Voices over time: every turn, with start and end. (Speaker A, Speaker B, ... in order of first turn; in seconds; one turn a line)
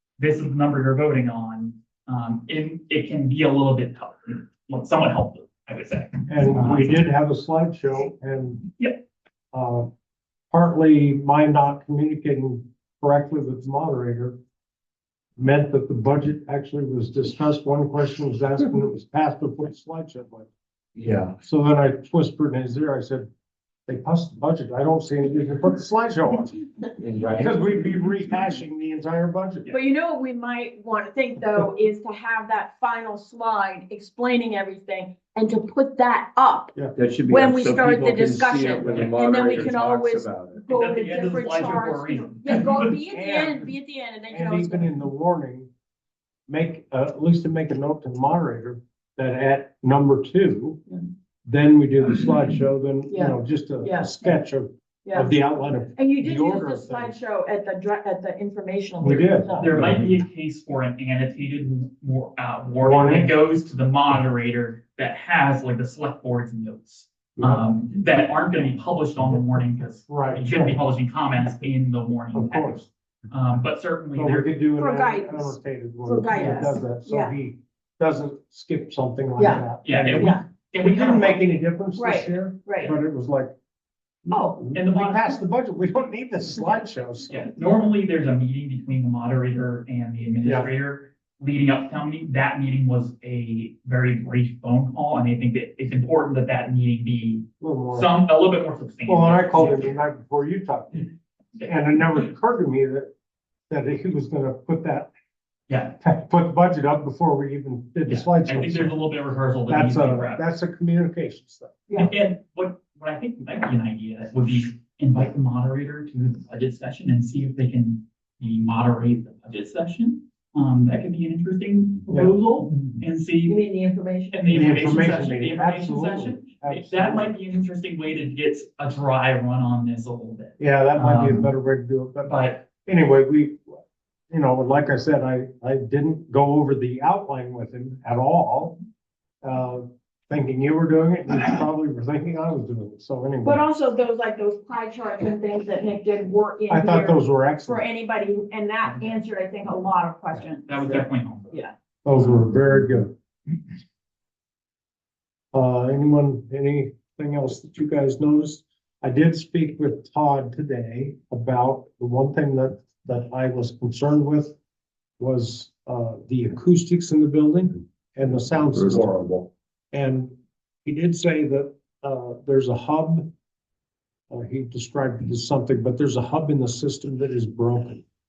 Speaker A: 0.2-7.0
Speaker B: 6.3-8.7
Speaker B: 9.5-9.9
Speaker B: 10.5-14.4
Speaker B: 15.4-20.5
Speaker C: 21.0-21.4
Speaker B: 21.4-23.3
Speaker B: 23.9-26.6
Speaker C: 27.0-27.6
Speaker B: 27.3-29.8
Speaker D: 29.7-36.8
Speaker C: 37.0-40.6
Speaker D: 37.3-44.9
Speaker A: 39.0-39.7
Speaker A: 40.7-42.9
Speaker B: 43.1-43.8
Speaker B: 44.3-45.7
Speaker B: 46.5-50.8
Speaker B: 51.5-57.1
Speaker D: 53.1-54.3
Speaker D: 55.1-55.3
Speaker D: 56.0-59.8
Speaker B: 59.0-60.2
Speaker A: 59.6-74.5
Speaker B: 62.8-63.4
Speaker B: 67.4-67.7
Speaker B: 70.1-70.8
Speaker B: 72.3-72.9
Speaker B: 74.2-83.5
Speaker D: 74.8-77.3
Speaker D: 79.4-80.5
Speaker A: 79.8-81.5
Speaker D: 82.0-83.0
Speaker B: 84.2-87.5
Speaker D: 84.3-84.6
Speaker A: 84.7-85.4
Speaker A: 87.3-100.0
Speaker B: 90.4-90.7
Speaker B: 97.6-98.1
Speaker B: 99.1-103.1
Speaker B: 103.7-105.1
Speaker A: 105.7-106.0
Speaker B: 106.0-109.0
Speaker A: 108.1-110.4
Speaker B: 109.7-111.8
Speaker D: 111.9-112.1
Speaker A: 112.0-123.6
Speaker B: 122.1-122.3
Speaker D: 123.5-124.7
Speaker A: 124.3-131.5
Speaker B: 124.5-127.3
Speaker B: 130.6-138.8
Speaker A: 132.2-132.6
Speaker B: 139.4-143.7
Speaker D: 143.4-151.7
Speaker B: 146.7-147.9
Speaker A: 150.7-151.5
Speaker B: 152.1-153.1
Speaker B: 155.5-164.6
Speaker B: 165.2-169.1
Speaker C: 168.7-169.5
Speaker B: 169.9-170.3
Speaker B: 170.8-173.3
Speaker B: 174.3-178.0